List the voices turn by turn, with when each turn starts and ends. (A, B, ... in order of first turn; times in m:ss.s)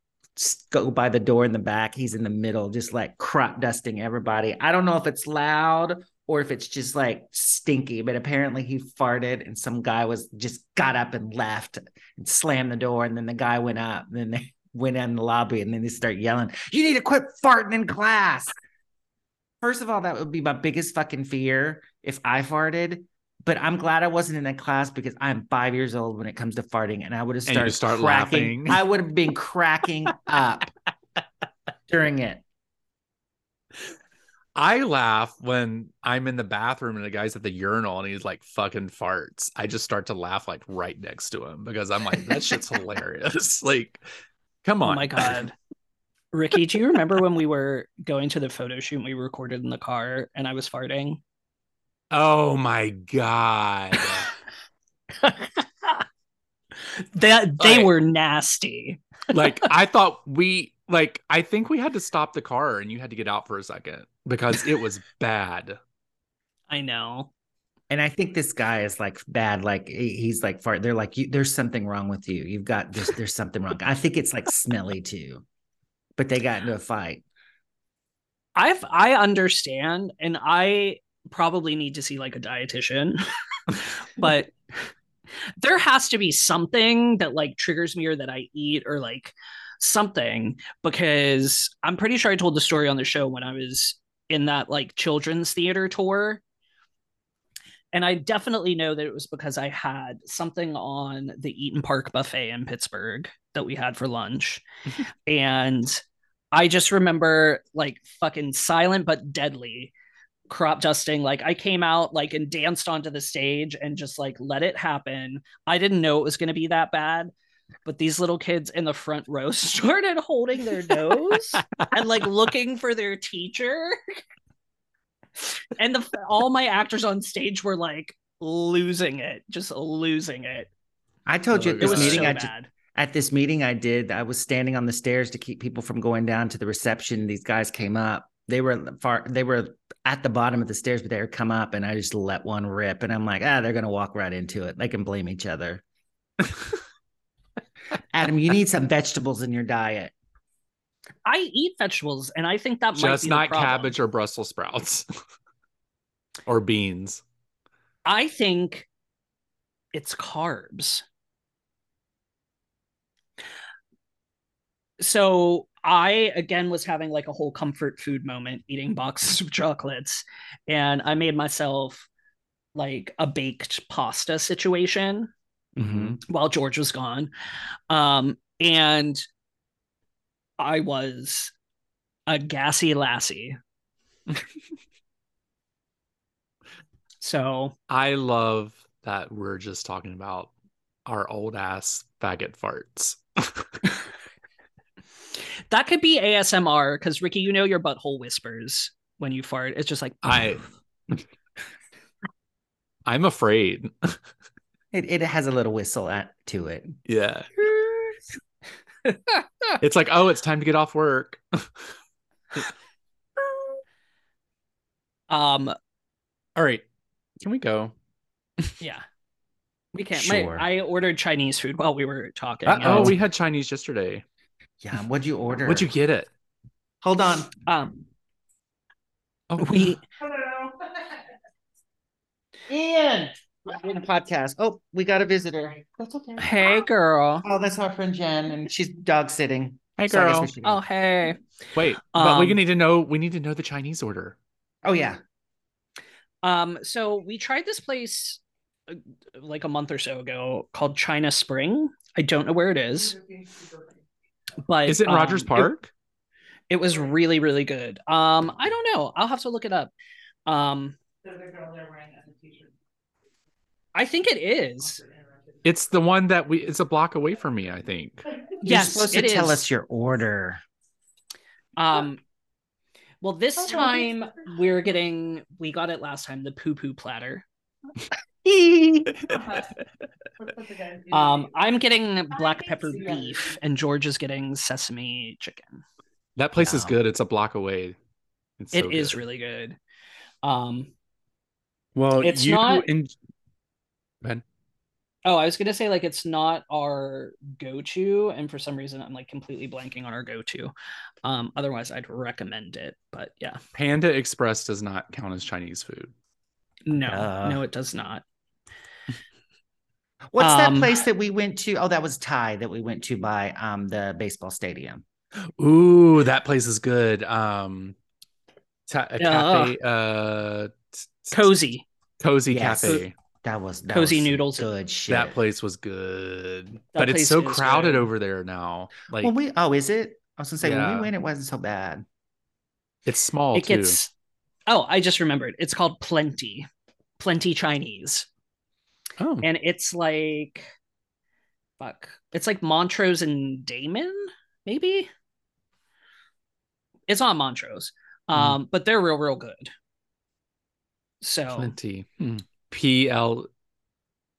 0:00.4-0:18.6 A
0:19.6-0:30.7 A
0:27.5-0:28.8 B
0:31.9-0:32.4 A
0:34.6-0:44.0 B
0:44.6-0:45.4 B
0:44.8-0:45.5 C
0:46.3-0:51.2 C
0:52.1-0:54.3 B
0:55.2-0:56.0 C
0:56.9-0:59.4 C
0:57.6-0:57.9 B
0:59.3-1:05.8 B
1:06.7-1:07.3 C
1:07.9-1:15.4 A
1:16.2-1:17.2 A
1:18.6-1:23.2 C
1:23.8-1:24.5 C
1:25.6-1:36.4 C
1:37.9-1:44.6 C
1:45.3-1:49.9 C
1:50.5-1:57.3 C
1:57.9-2:04.2 C
2:05.8-2:10.7 C
2:11.3-2:25.8 A
2:11.5-2:12.4 B
2:11.8-2:12.7 C
2:28.1-2:30.1 A
2:31.2-2:33.9 C
2:33.0-2:35.1 B
2:36.5-2:37.2 B
2:38.0-2:38.9 C
2:39.9-2:41.0 C
2:45.0-2:52.1 C
2:52.8-2:55.3 C
2:55.8-2:56.2 A
2:56.3-2:57.3 C
2:57.9-2:59.2 C
3:00.6-3:01.5 C
3:02.3-3:03.6 C
3:07.2-3:07.7 C
3:07.9-3:10.5 B
3:11.1-3:13.8 B
3:15.7-3:20.4 C
3:20.2-3:21.2 B
3:23.1-3:24.2 B
3:24.9-3:27.0 A
3:27.1-3:27.5 B
3:29.1-3:29.4 C
3:29.8-3:31.7 B
3:35.3-3:35.8 C
3:36.6-3:36.8 B
3:37.4-3:37.9 B
3:39.9-3:43.2 C
3:40.2-3:40.7 A
3:42.7-3:44.2 B
3:42.8-3:43.2 A
3:44.8-3:45.9 A
3:45.6-3:46.3 B
3:47.0-3:47.5 A
3:47.7-3:48.0 C
3:49.5-3:50.0 B
3:49.6-3:50.0 C
3:50.2-3:50.9 A
3:52.7-3:56.6 A
3:56.4-3:57.4 C
3:57.4-4:00.8 A
4:00.0-4:00.5 B
4:00.6-4:01.4 C
4:01.8-4:04.4 B
4:02.1-4:02.6 C
4:04.8-4:05.2 A
4:06.4-4:13.2 C
4:14.6-4:15.7 C
4:14.9-4:15.9 B
4:16.7-4:19.9 C
4:20.5-4:21.0 C
4:21.6-4:22.6 C
4:24.0-4:25.0 C
4:25.6-4:28.2 B
4:28.6-4:30.6 A
4:28.6-4:29.7 C
4:31.8-4:32.2 C
4:33.2-4:37.5 C
4:33.6-4:34.1 A
4:38.4-4:39.6 A
4:40.5-4:41.3 A
4:41.1-4:45.8 C
4:42.6-4:43.2 A
4:46.4-4:48.0 B
4:46.6-4:47.0 A
4:48.6-4:49.2 B
4:48.7-4:49.8 C
4:50.4-4:50.9 C
4:52.0-4:53.1 B
4:52.2-4:52.9 C
4:55.2-5:00.7 C
5:01.2-5:03.6 C
5:03.8-5:06.1 B
5:06.9-5:08.2 C
5:07.0-5:07.6 A
5:10.3-5:15.0 A
5:10.4-5:10.9 C
5:15.6-5:18.0 B
5:18.9-5:21.5 B
5:19.2-5:19.7 C
5:21.3-5:21.8 C
5:22.2-5:23.1 B
5:22.5-5:25.4 A
5:23.9-5:24.7 C
5:25.1-5:29.3 B
5:27.0-5:28.1 C
5:29.2-5:32.0 A
5:30.6-5:31.1 B
5:33.1-5:34.0 B
5:33.6-5:34.1 C
5:34.7-5:36.7 C
5:37.2-5:38.3 C
5:39.2-5:39.5 B
5:39.4-5:40.7 C
5:41.8-5:45.1 C
5:47.1-5:49.7 C
5:51.2-5:51.7 C
5:51.5-5:53.5 B